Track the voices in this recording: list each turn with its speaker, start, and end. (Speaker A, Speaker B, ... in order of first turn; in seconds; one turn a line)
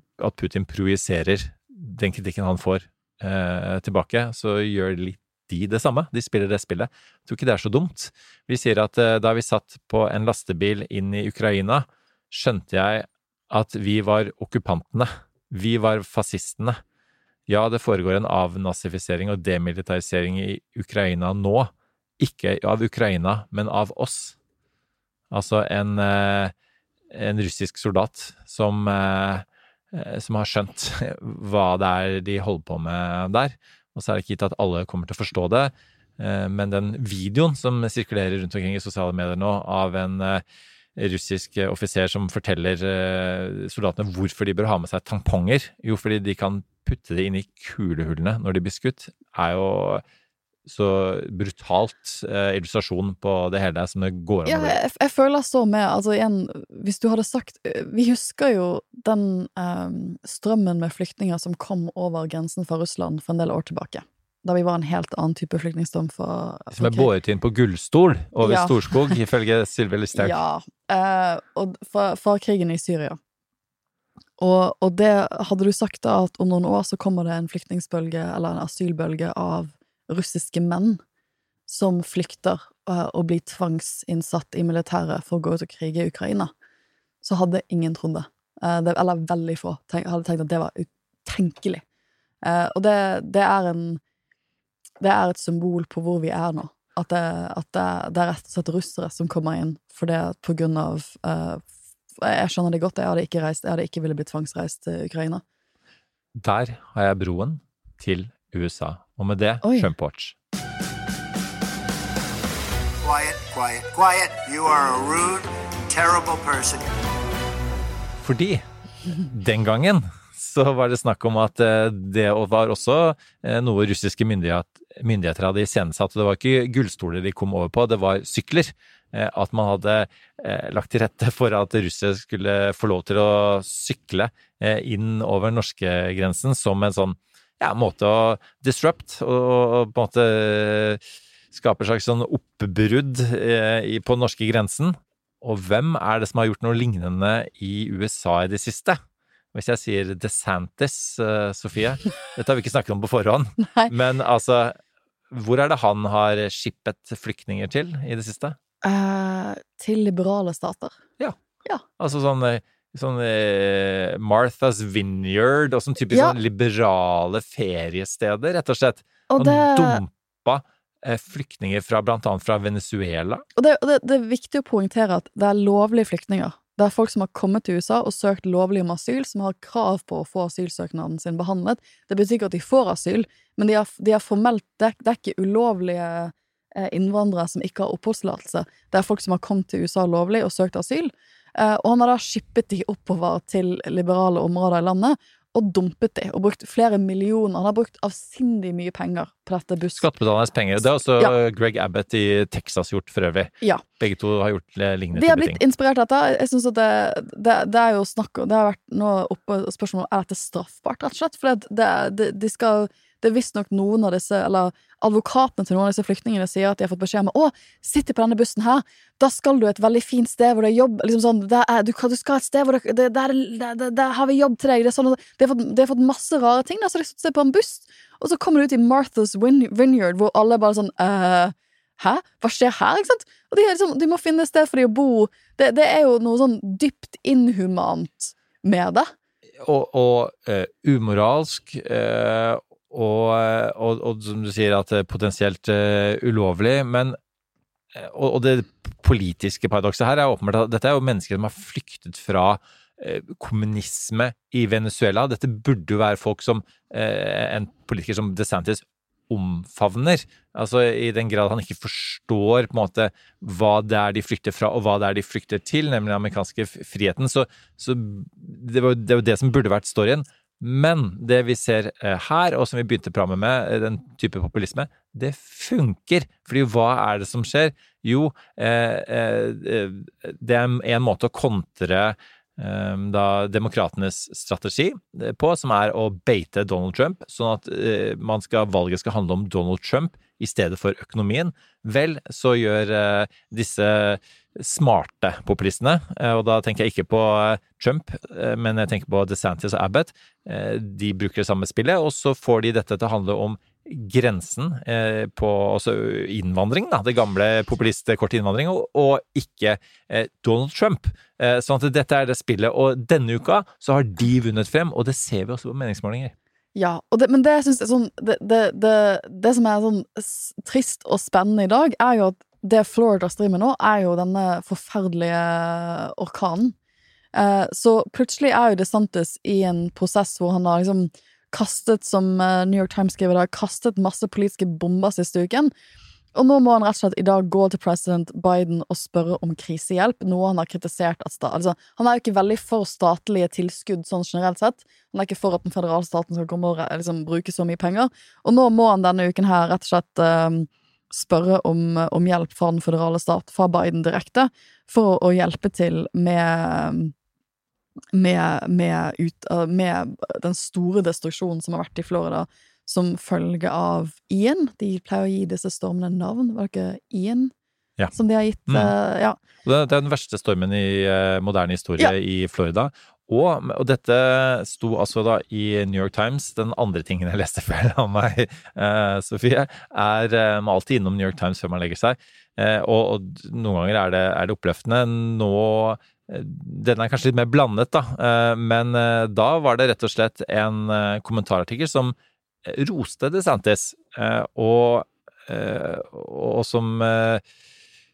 Speaker A: 0.2-16.8
Speaker A: 17.5-24.4
Speaker A: 25.3-26.5
Speaker A: 27.1-40.4
Speaker A: 41.0-50.0
Speaker A: 50.7-54.8
Speaker B: 54.5-67.1
Speaker A: 66.7-70.4
Speaker B: 68.4-69.1
Speaker B: 70.1-73.2
Speaker B: 74.4-81.0
Speaker B: 81.7-86.5
Speaker B: 87.2-91.8
Speaker B: 92.5-94.0
Speaker B: 95.0-101.6
Speaker B: 102.2-105.4
Speaker A: 106.3-110.3
Speaker B: 109.6-109.9
Speaker C: 113.0-116.9
Speaker A: 118.2-141.0
Speaker A: 141.5-149.0
Speaker A: 149.5-154.8
Speaker B: 153.6-153.9
Speaker A: 155.3-158.6
Speaker B: 158.8-161.0
Speaker A: 162.0-173.4
Speaker B: 166.1-166.4
Speaker B: 169.3-170.0
Speaker B: 173.6-200.1
Speaker A: 200.0-205.6
Speaker B: 205.1-239.1
Speaker A: 239.6-247.2
Speaker A: 247.9-316.3
Speaker B: 316.8-326.8
Speaker B: 327.3-335.7
Speaker B: 336.4-357.1
Speaker B: 358.1-367.5
Speaker B: 368.1-369.4
Speaker A: 368.7-368.9
Speaker A: 369.6-397.4